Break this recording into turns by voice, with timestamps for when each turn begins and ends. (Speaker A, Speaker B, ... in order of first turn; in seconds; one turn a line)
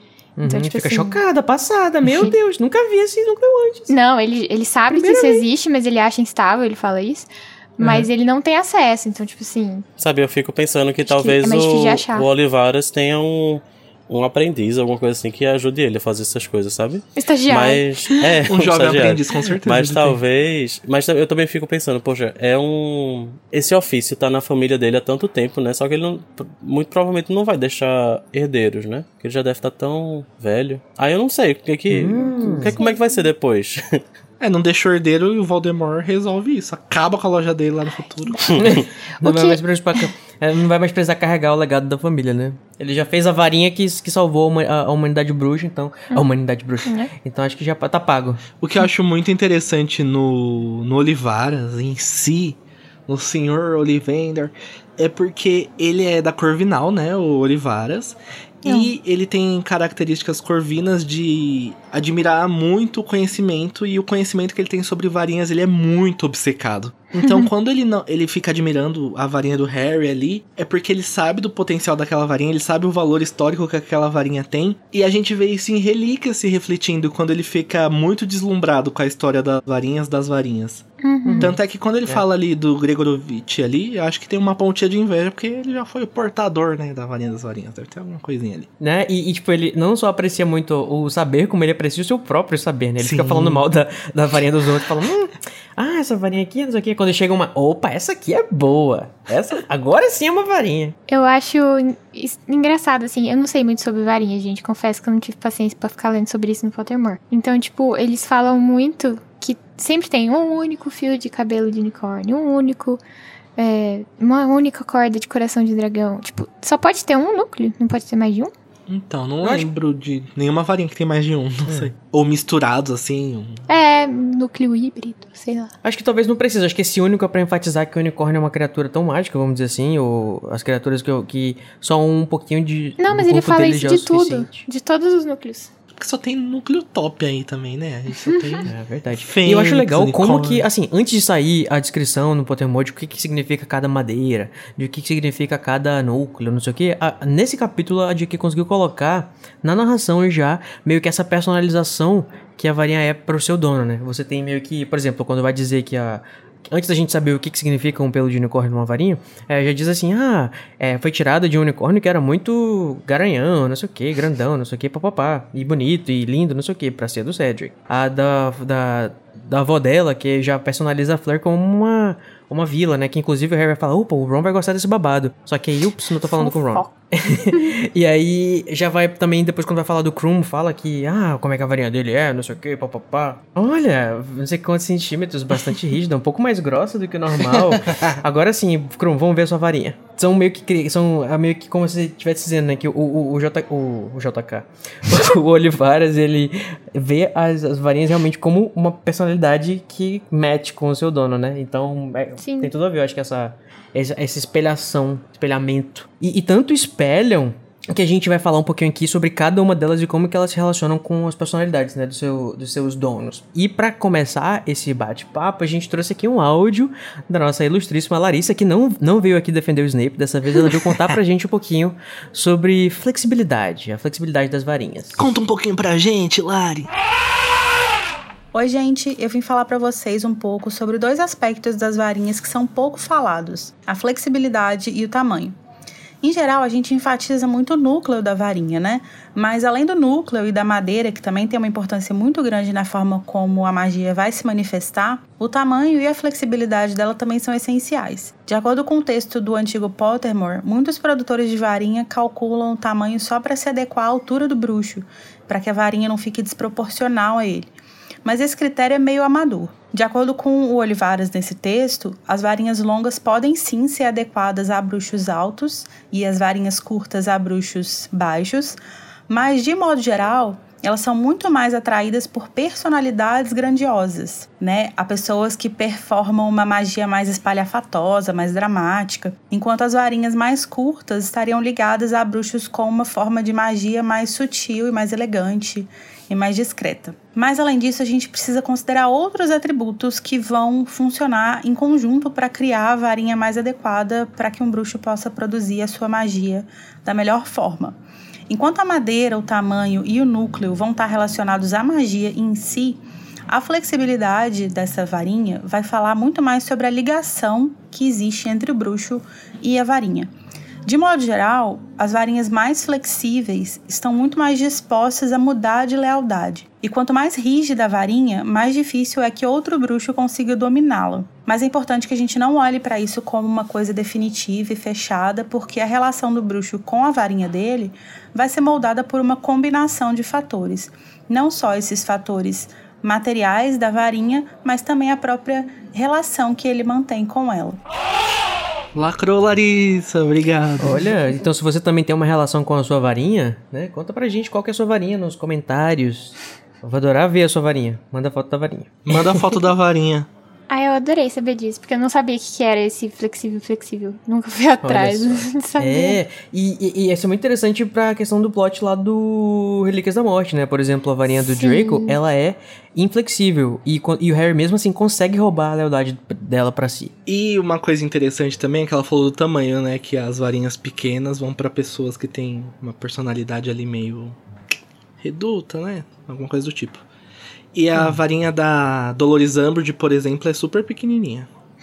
Speaker A: 0.4-3.9
Speaker B: 0.5-1.2
Speaker B: 3.9-9.9
Speaker A: 4.9-5.5
Speaker A: 7.8-8.1
Speaker C: 10.0-34.0
Speaker B: 11.0-12.3
Speaker B: 17.2-18.1
Speaker D: 18.4-20.2
Speaker A: 31.9-32.8
Speaker B: 32.6-33.2
Speaker D: 34.4-38.7
Speaker B: 38.3-39.6
Speaker A: 38.6-48.4
Speaker D: 48.6-80.9
Speaker B: 81.0-81.5
Speaker A: 81.2-82.2
Speaker D: 81.4-88.7
Speaker A: 88.8-101.0
Speaker D: 93.0-93.6
Speaker B: 101.1-113.0
Speaker B: 113.6-118.5
Speaker D: 118.9-123.6
Speaker A: 119.4-119.7
Speaker A: 121.7-121.9
Speaker B: 123.7-125.7
Speaker A: 125.8-134.7
Speaker B: 133.0-135.7
Speaker D: 136.0-140.7
Speaker B: 138.3-138.6
Speaker A: 138.7-225.2
Speaker B: 176.3-176.7
Speaker D: 187.4-188.2
Speaker B: 202.4-202.7
Speaker D: 225.2-226.9
Speaker E: 228.5-235.6
Speaker E: 236.2-257.7
Speaker E: 258.2-268.8
Speaker E: 269.3-310.3
Speaker E: 310.9-337.8
Speaker D: 338.9-341.1
Speaker A: 340.8-349.4
Speaker D: 349.1-350.3
Speaker B: 350.7-356.2
Speaker A: 354.8-367.1
Speaker B: 361.3-362.2
Speaker D: 367.3-374.4
Speaker D: 375.2-377.0
Speaker D: 377.7-381.5